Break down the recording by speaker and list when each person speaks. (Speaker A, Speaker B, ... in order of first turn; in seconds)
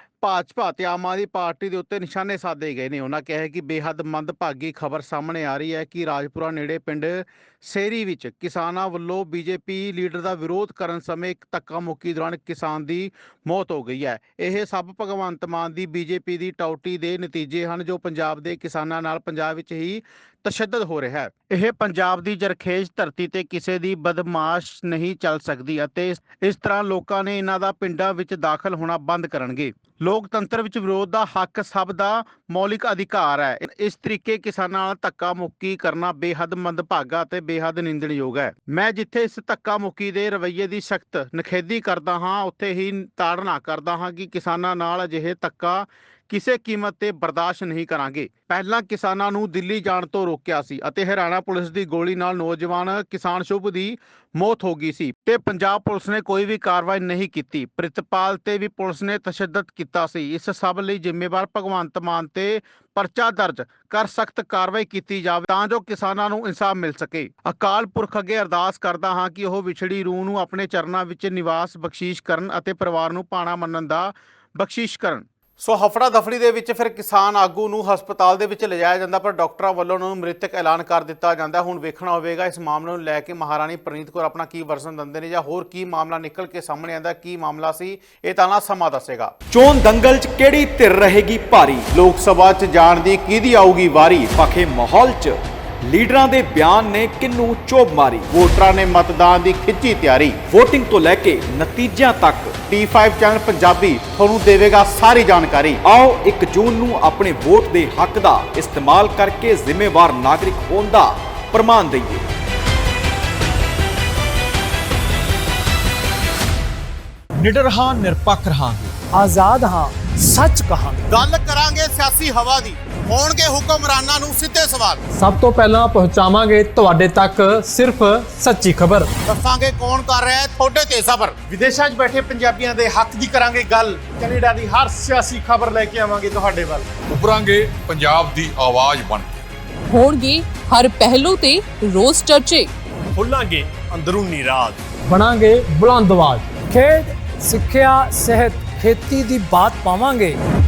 Speaker A: 0.2-89.3, 91.9-94.3, 98.3-100.4, 102.7-105.8, 121.1-125.0, 129.3-131.4
Speaker B: 89.5-91.9, 94.3-98.4, 100.5-102.5, 105.8-112.2, 117.4-118.9
Speaker C: 119.1-121.0, 125.2-129.1, 145.1-150.4
Speaker D: 131.5-136.9, 143.2-144.8
Speaker E: 137.1-139.3
Speaker F: 139.9-142.7